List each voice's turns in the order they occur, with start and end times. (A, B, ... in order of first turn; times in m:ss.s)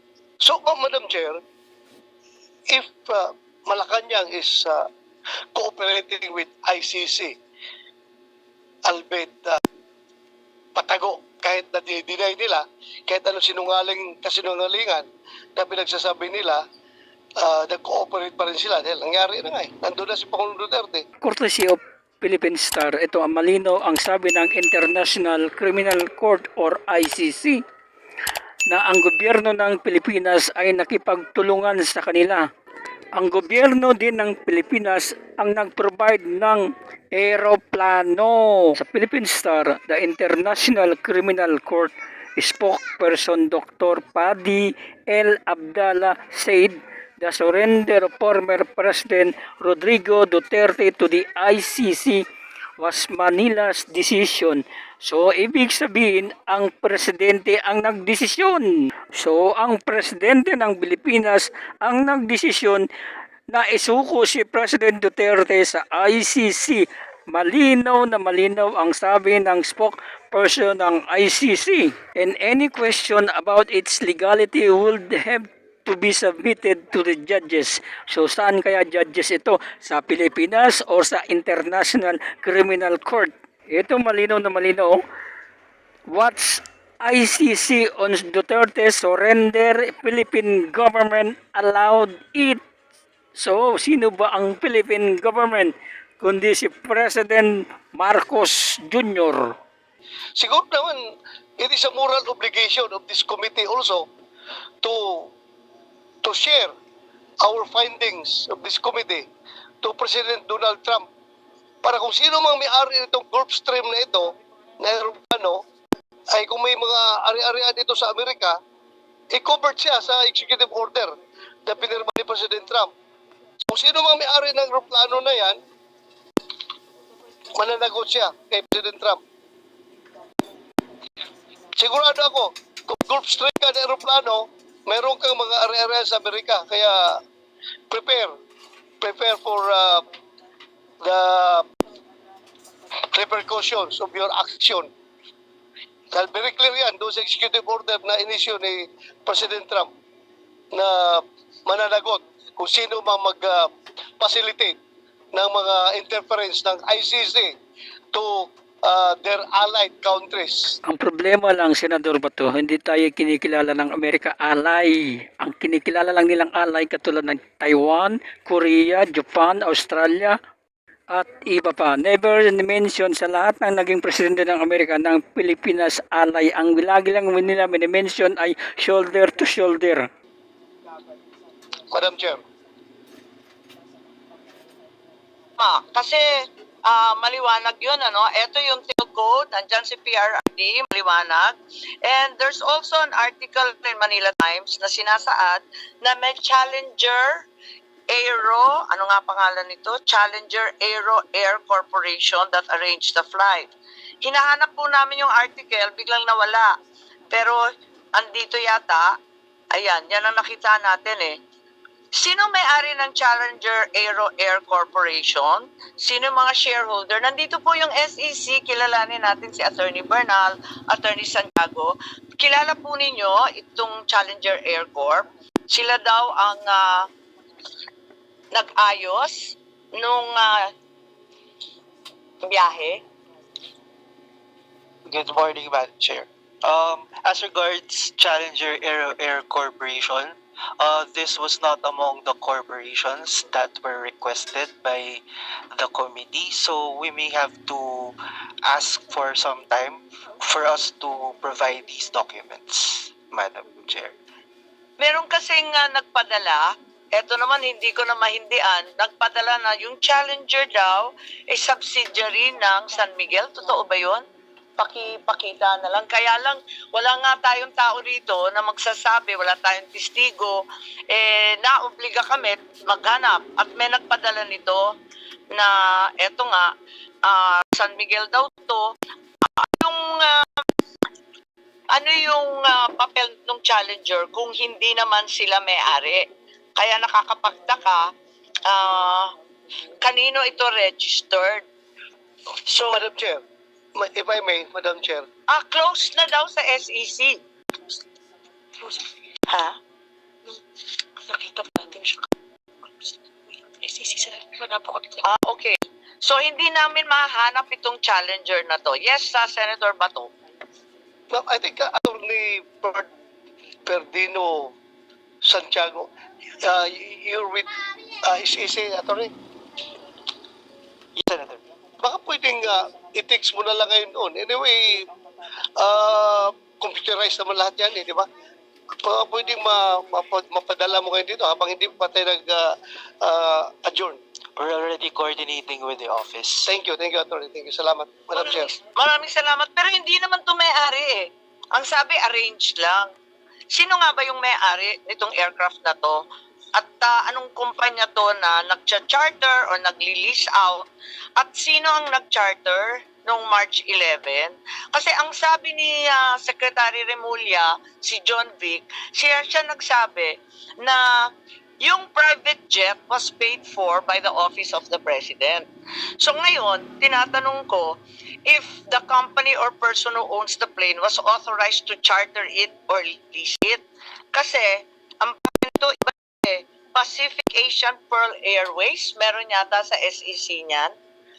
0:00.4-0:01.4 A
0:02.7-0:04.8 A
0:05.5-0:07.3 A
0:08.8-0:09.6 A
0:10.7-0:16.6 A
0:17.4-0:21.0 A
0:21.2-0:27.6 B
0:28.7-0:32.4 B
0:33.1-0:52.2 B
0:52.8-1:02.8 B
1:03.5-1:25.0 B
1:26.1-1:32.6 B
1:33.4-1:39.5 B
1:40.4-1:41.1 A
1:41.6-1:44.0 A
1:44.8-1:45.3 A
1:46.2-1:46.7 A
1:47.4-1:49.2 A
1:49.8-1:51.0 A
1:51.8-1:55.6 A
1:56.3-1:58.6 A
1:59.3-2:01.1 A
2:01.6-2:02.9 A
2:03.7-2:05.6 A
2:07.5-2:09.2 A
2:11.8-2:17.2 A
2:17.9-2:18.3 A
2:19.0-2:20.0 A
2:21.0-2:21.6 A
2:23.1-2:24.9 A
2:26.1-2:29.9 A
2:30.7-2:33.7 A
2:34.2-2:34.7 A
2:35.3-2:37.5 A
2:38.1-2:40.8 A
2:40.8-2:50.3 B
2:51.1-3:00.1 B
3:01.9-3:02.4 A
3:05.6-3:06.2 C
3:06.8-3:17.4 C
3:18.1-3:23.7 C
3:24.2-3:26.7 C
3:27.3-3:27.6 C
3:28.1-3:29.1 C
3:29.7-3:31.3 C
3:32.1-3:47.0 C
3:48.5-3:50.7 C
3:52.4-3:53.0 C
3:55.1-4:14.1 D
4:15.0-4:16.6 C
4:17.1-4:24.2 C
4:24.8-4:34.8 C
4:35.5-4:36.7 C
4:37.2-4:38.9 C
4:39.4-4:40.6 C
4:41.9-4:46.2 C
4:46.8-4:48.1 C
4:48.6-4:49.3 C
4:50.0-4:51.6 C
4:52.7-4:53.4 A
4:53.9-4:55.2 A
4:55.5-4:57.4 C
4:58.8-4:59.8 C
5:01.3-5:02.1 E
5:01.5-5:02.2 C
5:03.8-5:05.0 E
5:03.8-5:10.3 C
5:11.3-5:13.1 A
5:13.8-5:14.7 A
5:15.4-5:16.1 A
5:16.6-5:19.3 A
5:21.2-5:21.6 D
5:22.0-5:25.1 A
5:25.8-5:28.2 A
5:29.0-5:32.7 A
5:33.2-5:34.2 A
5:34.6-5:36.7 D
5:36.6-5:38.8 A
5:38.4-5:43.1 C
5:43.7-5:46.2 C
5:46.7-5:50.8 C
5:51.4-6:01.3 C
6:01.8-6:05.6 C
6:06.2-6:13.8 C
6:14.3-6:20.9 C